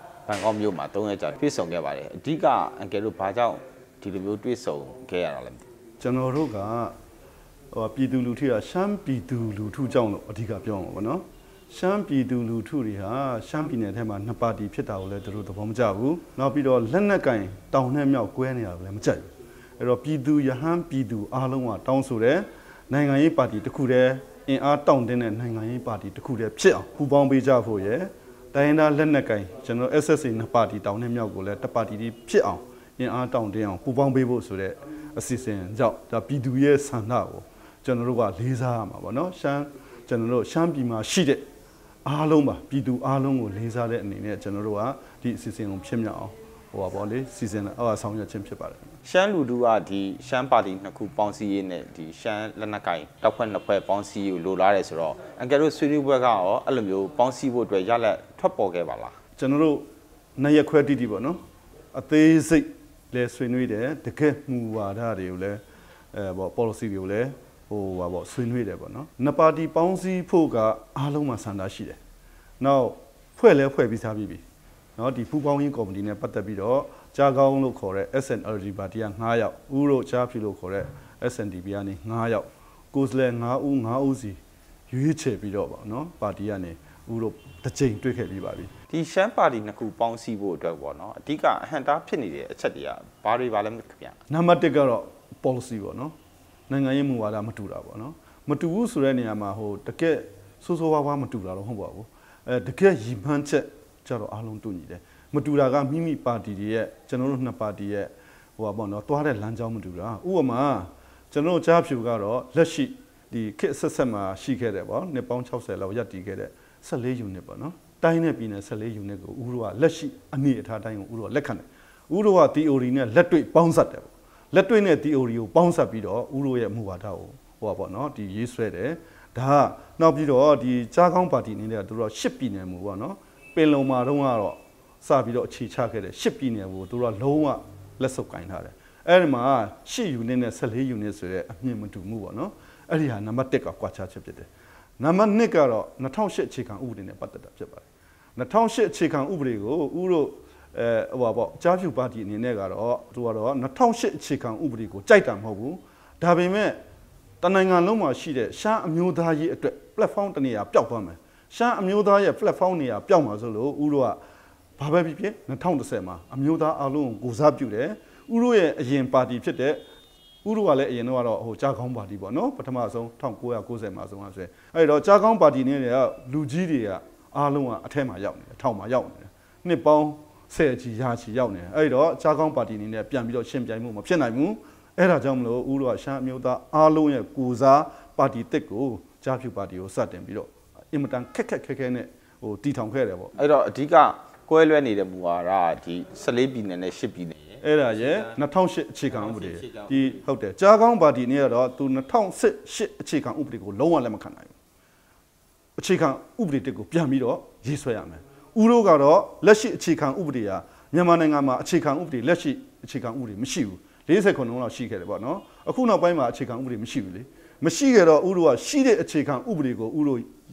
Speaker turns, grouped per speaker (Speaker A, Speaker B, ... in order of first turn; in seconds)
Speaker A: 0.3-5.7, 49.0-59.1, 88.9-94.2, 193.4-198.3, 199.1-200.2
Speaker B: 6.0-6.9, 7.7-19.3, 19.8-41.4, 42.0-48.9, 59.4-59.9, 60.4-61.4, 61.9-65.6, 66.1-72.0, 72.6-74.4, 75.0-84.4, 84.9-88.7, 94.3-96.1, 96.7-144.5, 145.0-147.8, 148.3-156.8, 157.4-164.2, 164.8-169.8, 170.4-193.3, 197.6-204.5, 205.8-220.3